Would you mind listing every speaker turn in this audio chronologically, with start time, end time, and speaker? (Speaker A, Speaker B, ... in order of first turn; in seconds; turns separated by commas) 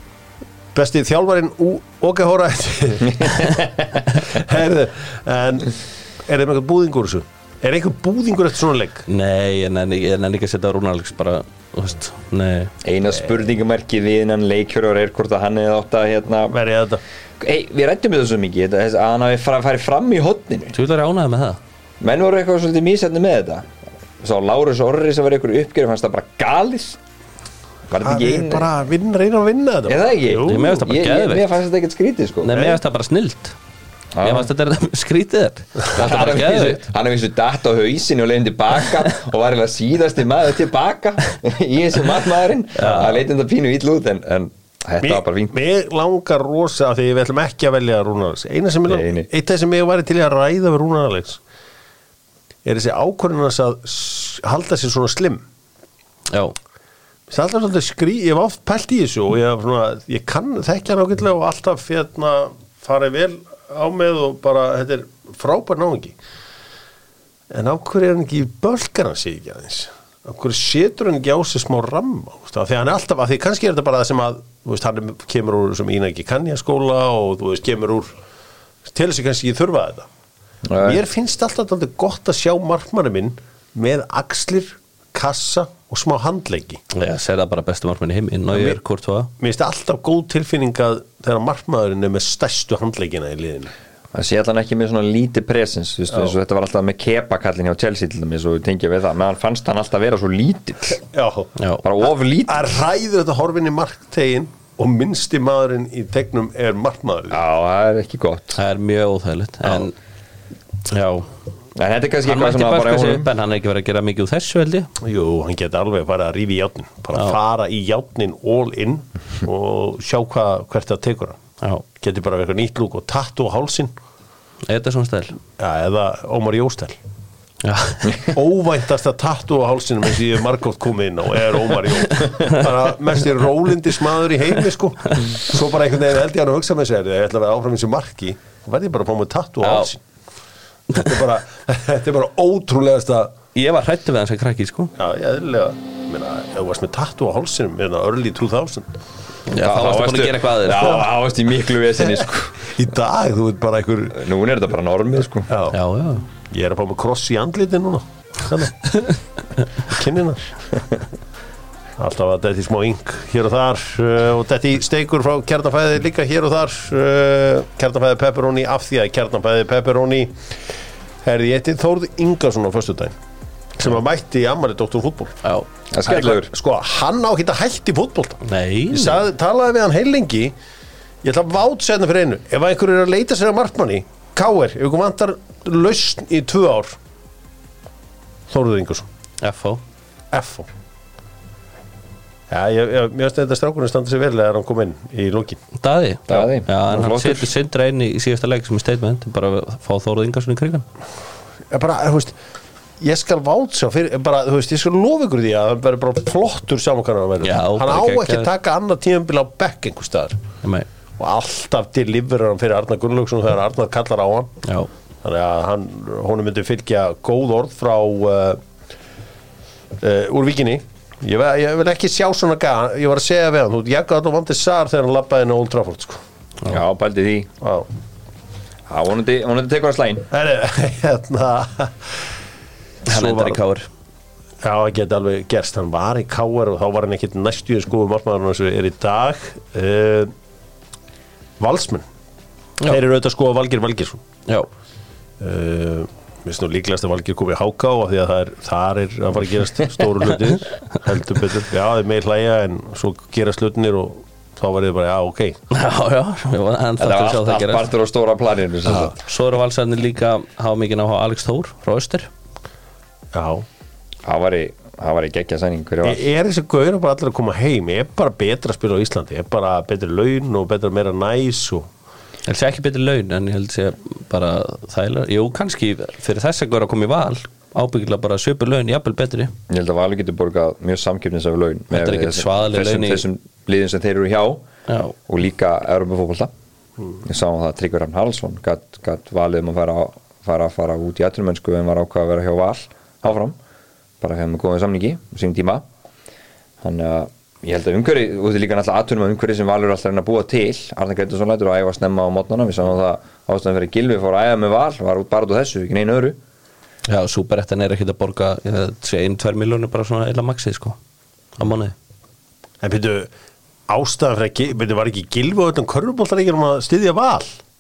Speaker A: 0.7-9.1, Speaker B: 9.1-12.7, Speaker C: 12.8-16.6, Speaker A: 16.5-17.0, Speaker C: 17.4-20.7, Speaker B: 20.7-21.6, Speaker C: 22.0-23.7, Speaker C: 24.2-27.0, Speaker C: 27.9-28.7, Speaker A: 28.0-30.8, Speaker C: 29.9-32.8, Speaker B: 30.5-31.5, Speaker B: 32.4-33.5, Speaker C: 34.1-34.5, Speaker B: 34.2-36.9, Speaker C: 35.9-45.5, Speaker B: 42.8-43.2, Speaker A: 45.0-51.4, Speaker C: 48.9-49.3, Speaker A: 52.6-55.5, Speaker B: 56.3-56.6, Speaker A: 57.3-66.2, Speaker A: 67.5-78.1, Speaker A: 78.8-80.1, Speaker C: 80.7-81.0, Speaker A: 80.8-86.8, Speaker B: 86.9-89.3, Speaker A: 88.5-88.8, Speaker A: 89.4-93.7, Speaker C: 94.1-101.0, Speaker A: 101.0-101.5, Speaker C: 101.8-102.7, Speaker A: 102.5-107.4, Speaker C: 107.3-108.6, Speaker B: 108.6-109.9, Speaker B: 110.9-111.3, Speaker C: 111.8-113.3, Speaker B: 112.3-114.9, Speaker A: 115.0-121.4, Speaker A: 122.0-123.9, Speaker B: 124.7-125.4, Speaker A: 125.6-127.0, Speaker B: 127.6-128.3, Speaker A: 128.3-140.0, Speaker B: 139.6-139.9, Speaker A: 140.9-143.3, Speaker B: 143.6-144.9, Speaker A: 145.0-148.9, Speaker B: 149.5-151.0, Speaker C: 149.6-152.7, Speaker A: 152.0-154.2, Speaker C: 154.2-155.5, Speaker A: 155.5-155.8, Speaker B: 155.7-156.3, Speaker A: 156.4-158.9, Speaker A: 159.9-160.6, Speaker A: 162.0-170.6, Speaker A: 171.2-173.2, Speaker A: 173.8-175.4, Speaker C: 175.9-176.5, Speaker A: 176.1-180.6, Speaker B: 178.4-179.2, Speaker A: 181.2-187.0, Speaker A: 188.5-189.1, Speaker B: 189.4-189.8, Speaker A: 190.3-190.7, Speaker A: 192.5-195.6, Speaker B: 195.8-200.8, Speaker C: 196.3-197.5, Speaker A: 201.7-202.4, Speaker A: 203.0-210.4, Speaker B: 207.4-208.5, Speaker A: 211.2-214.5, Speaker B: 214.6-214.9, Speaker A: 215.2-218.6, Speaker A: 220.0-226.2, Speaker C: 226.7-227.5, Speaker A: 227.6-227.9, Speaker C: 228.9-230.3, Speaker A: 230.3-232.3, Speaker B: 233.1-233.9, Speaker A: 233.1-233.6, Speaker A: 234.6-240.3, Speaker A: 241.6-242.1, Speaker A: 242.8-244.2, Speaker A: 245.4-255.6, Speaker B: 255.7-257.9, Speaker C: 257.0-259.2, Speaker B: 258.9-262.3, Speaker A: 263.3-263.7, Speaker C: 264.2-266.2, Speaker A: 266.0-271.9, Speaker B: 272.5-279.5, Speaker C: 279.7-284.7, Speaker B: 281.9-283.2, Speaker B: 284.9-285.1, Speaker C: 285.3-286.5, Speaker C: 287.2-293.6, Speaker C: 294.2-295.8, Speaker C: 296.8-306.4, Speaker B: 307.1-311.0, Speaker B: 311.6-311.9, Speaker A: 312.8-313.3, Speaker A: 313.9-317.6